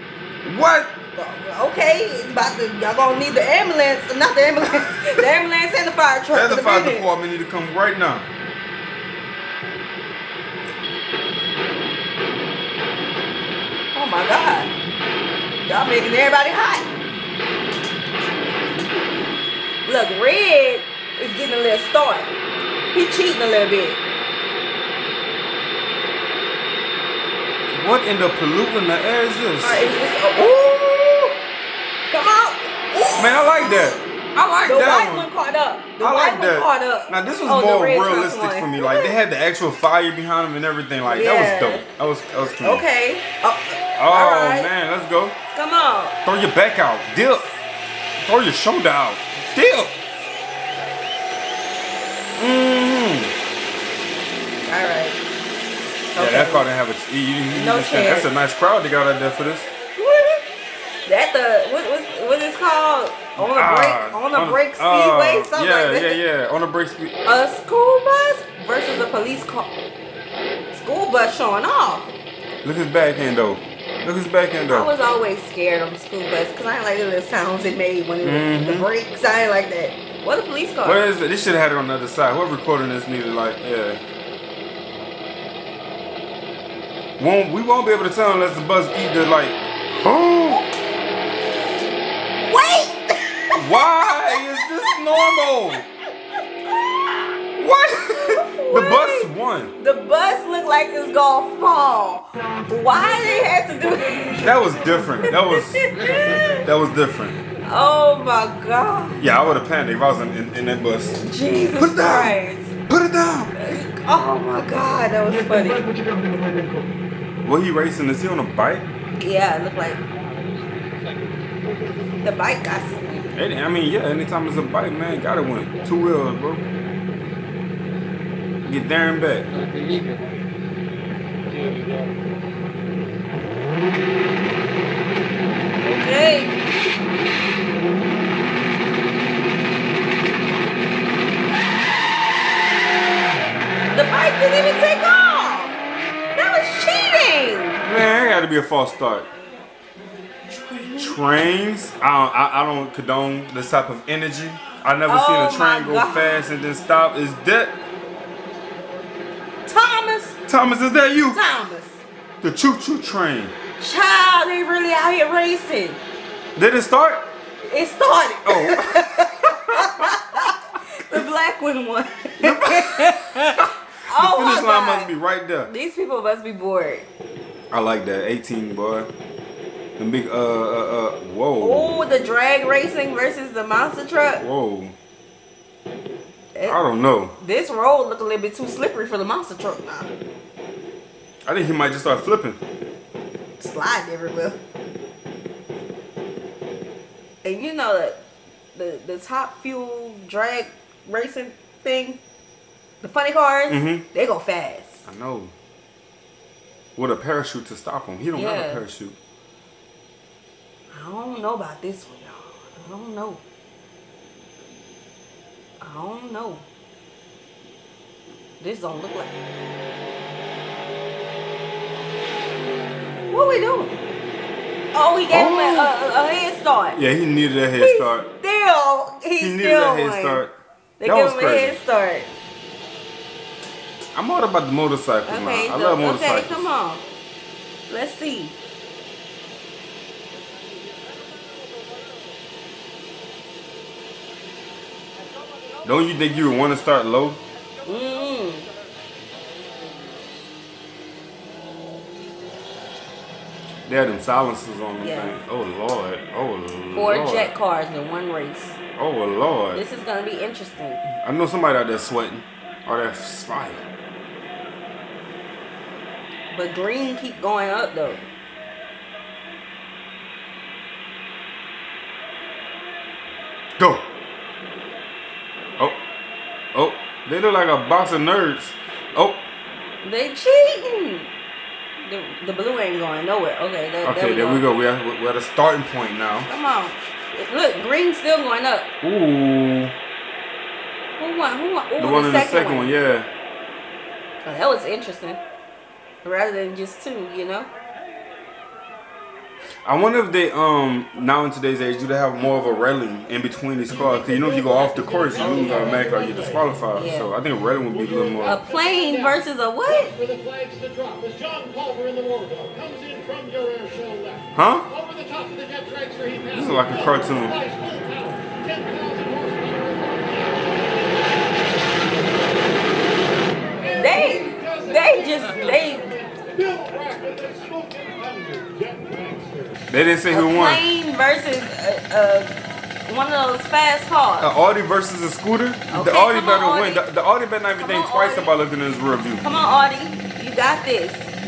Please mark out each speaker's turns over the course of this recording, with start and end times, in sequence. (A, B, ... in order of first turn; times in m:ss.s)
0:00.4-0:00.9 A
0:01.1-0:07.0 B
0:06.3-0:08.3 A
0:13.9-0:14.7 B
0:15.6-0:16.8 B
0:19.8-0:22.3 B
0:22.9-0:24.0 B
0:27.7-0:29.8 A
0:29.6-0:31.4 B
0:32.1-0:33.6 B
0:33.2-0:35.3 A
0:34.6-0:39.1 B
0:36.0-0:42.8 A
0:41.0-0:41.8 B
0:42.6-0:44.7 B
0:44.0-0:45.4 A
0:45.5-0:46.2 B
0:46.2-0:47.5 A
0:48.2-0:49.9 A
0:52.4-0:53.3 A
0:54.7-0:55.2 B
0:56.2-0:56.6 B
0:56.2-0:59.7 A
0:57.5-0:58.3 B
1:00.0-1:00.4 B
1:01.0-1:06.2 B
1:03.4-1:07.1 A
1:07.2-1:09.7 B
1:10.7-1:12.1 B
1:12.6-1:14.9 A
1:14.7-1:21.0 B
1:18.2-1:18.9 A
1:20.8-1:24.0 A
1:27.2-1:30.6 A
1:32.4-1:33.6 B
1:33.5-1:35.9 A
1:34.3-1:34.9 B
1:36.8-1:37.2 B
1:37.6-1:39.7 A
1:37.9-1:46.6 B
1:44.4-1:45.8 A
1:46.6-1:47.4 A
1:47.6-1:49.2 B
1:49.2-1:51.2 A
1:51.2-1:52.7 B
1:51.8-1:52.3 A
1:52.9-1:53.6 A
1:53.5-1:55.9 B
1:57.4-1:58.9 A
1:59.2-2:00.0 B
2:02.2-2:03.3 B
2:03.3-2:06.6 A
2:08.6-2:09.5 A
2:15.8-2:16.5 B
2:23.9-2:25.8 B
2:26.3-2:27.8 B
2:27.8-2:29.3 A
2:30.7-2:31.1 B
2:30.9-2:37.7 A
2:35.1-2:36.4 B
2:39.7-2:40.4 B
2:40.5-2:41.4 A
2:41.3-2:42.0 B
2:42.4-2:43.5 A
2:43.8-2:46.0 B
2:46.6-2:47.2 A
2:47.7-2:55.1 B
2:48.4-2:50.1 A
2:52.4-2:53.1 A
2:54.1-2:55.7 A
2:55.6-2:57.0 B
2:57.7-2:59.1 A
3:00.0-3:02.0 A
3:01.6-3:04.4 B
3:04.4-3:04.9 A
3:06.5-3:06.8 B
3:06.6-3:07.3 A
3:07.4-3:10.1 B
3:11.5-3:12.6 A
3:13.6-3:14.6 B
3:17.4-3:18.2 B
3:18.7-3:22.2 B
3:23.0-3:25.0 B
3:23.7-3:24.0 A
3:25.0-3:25.5 A
3:27.0-3:29.2 A
3:28.3-3:28.8 B
3:30.9-3:33.4 B
3:35.8-3:36.6 B
3:38.6-3:39.3 B
3:43.3-3:43.9 B
3:44.9-3:47.0 B
3:45.3-3:45.9 A
3:46.9-3:48.3 A
3:47.8-3:50.4 B
3:49.4-3:51.8 A
3:51.0-3:52.3 B
3:54.2-3:56.7 A
3:55.2-3:57.0 B
3:57.9-3:58.5 B
4:05.8-4:07.4 A
4:07.8-4:08.7 B
4:13.9-4:17.5 A
4:15.0-4:15.3 B
4:16.9-4:18.8 B
4:19.0-4:19.8 A
4:19.7-4:21.0 B
4:21.1-4:23.8 A
4:26.5-4:28.3 B
4:33.8-4:34.0 A
4:36.7-4:39.4 A
4:40.0-4:41.3 B
4:42.0-4:44.6 B
4:44.0-4:46.5 A
4:46.5-4:48.9 B
4:49.0-4:49.9 A
4:51.2-4:52.9 B
4:52.0-4:53.3 A
4:54.4-4:55.4 B
4:56.2-4:57.7 B
4:59.8-5:08.6 A
5:04.8-5:06.2 B
5:06.9-5:07.3 B
5:08.4-5:10.2 B
5:10.4-5:14.4 C
5:14.5-5:14.9 A
5:15.1-5:16.3 C
5:16.4-5:17.6 A
5:17.7-5:20.2 C
5:23.8-5:26.2 B
5:26.3-5:29.6 C
5:29.9-5:30.8 A
5:30.3-5:32.5 B
5:33.1-5:34.5 B
5:34.4-5:39.4 A
5:35.9-5:37.0 B
5:37.8-5:38.5 B
5:39.4-5:41.3 B